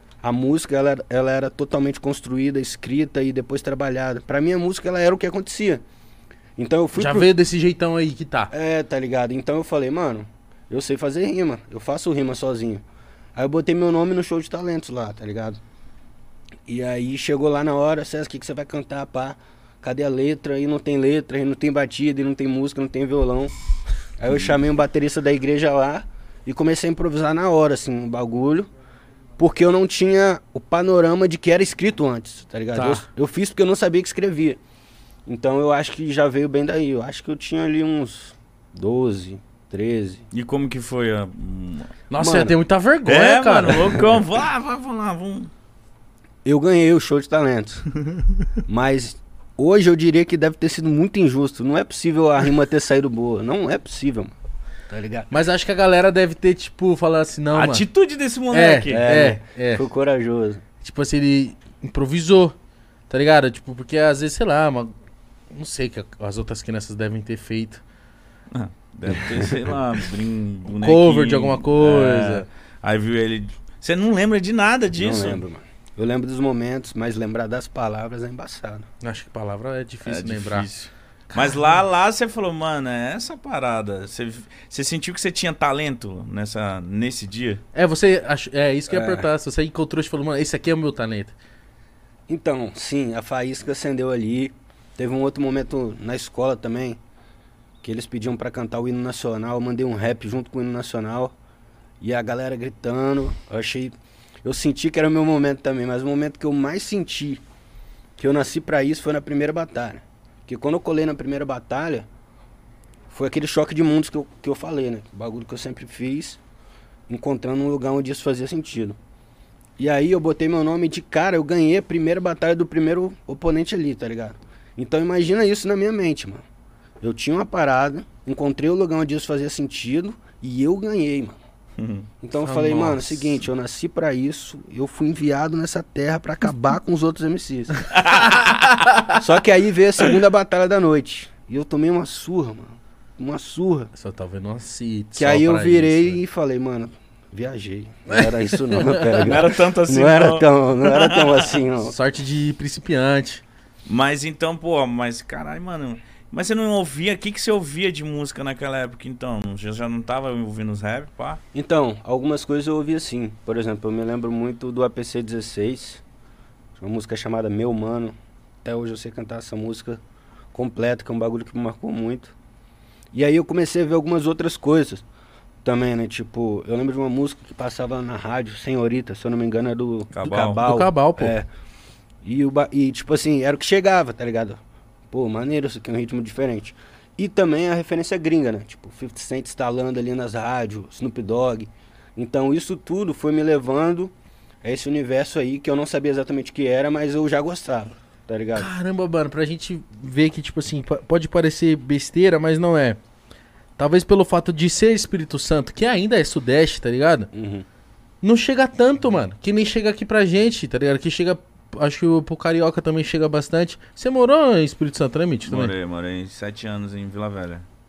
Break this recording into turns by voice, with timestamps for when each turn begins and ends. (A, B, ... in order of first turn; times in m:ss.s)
0:00.2-0:05.8 A
0:06.6-0:07.3 A
0:06.9-0:08.5 B
0:08.5-0:12.8 A
0:13.4-0:15.6 A
0:16.7-0:23.5 A
0:24.2-0:28.7 A
0:29.4-0:34.6 A
0:32.7-0:33.0 C
0:35.2-0:40.2 A
0:40.3-0:41.9 C
0:42.1-0:44.1 B
0:42.2-0:42.6 A
0:43.0-0:45.5 C
0:46.4-0:47.9 A
0:48.7-0:54.3 A
0:54.9-0:55.3 A
0:55.3-0:57.8 B
0:57.5-0:59.1 C
0:58.5-0:59.8 B
0:58.9-1:00.6 A
1:00.8-1:02.5 B
1:03.1-1:04.9 B
1:05.5-1:07.8 B
1:08.5-1:15.4 C
1:10.7-1:12.5 B
1:14.9-1:18.9 A
1:19.0-1:20.7 B
1:20.0-1:27.6 C
1:21.3-1:21.7 B
1:27.7-1:31.3 B
1:28.9-1:29.3 A
1:32.3-1:37.0 A
1:37.8-1:41.3 A
1:42.0-1:47.4 A
1:48.2-1:52.1 A
1:53.1-1:56.4 A
1:57.1-1:59.0 A
1:59.8-2:06.4 A
2:07.0-2:11.4 A
2:11.8-2:12.1 C
2:12.2-2:17.9 A
2:12.4-2:13.4 B
2:18.0-2:18.5 C
2:19.1-2:23.9 A
2:23.9-2:26.2 B
2:25.2-2:31.9 A
2:28.2-2:29.1 B
2:29.2-2:31.5 C
2:31.8-2:33.4 B
2:33.8-2:41.4 C
2:41.5-2:46.0 A
2:46.8-2:50.0 A
2:50.5-2:52.3 A
2:53.1-2:55.0 A
2:55.6-3:01.5 A
3:00.1-3:00.6 C
3:00.6-3:01.3 B
3:02.2-3:04.6 A
3:05.1-3:18.7 A
3:18.5-3:23.0 B
3:23.8-3:27.3 B
3:27.3-3:27.6 A
3:28.2-3:35.7 B
3:35.4-3:37.6 C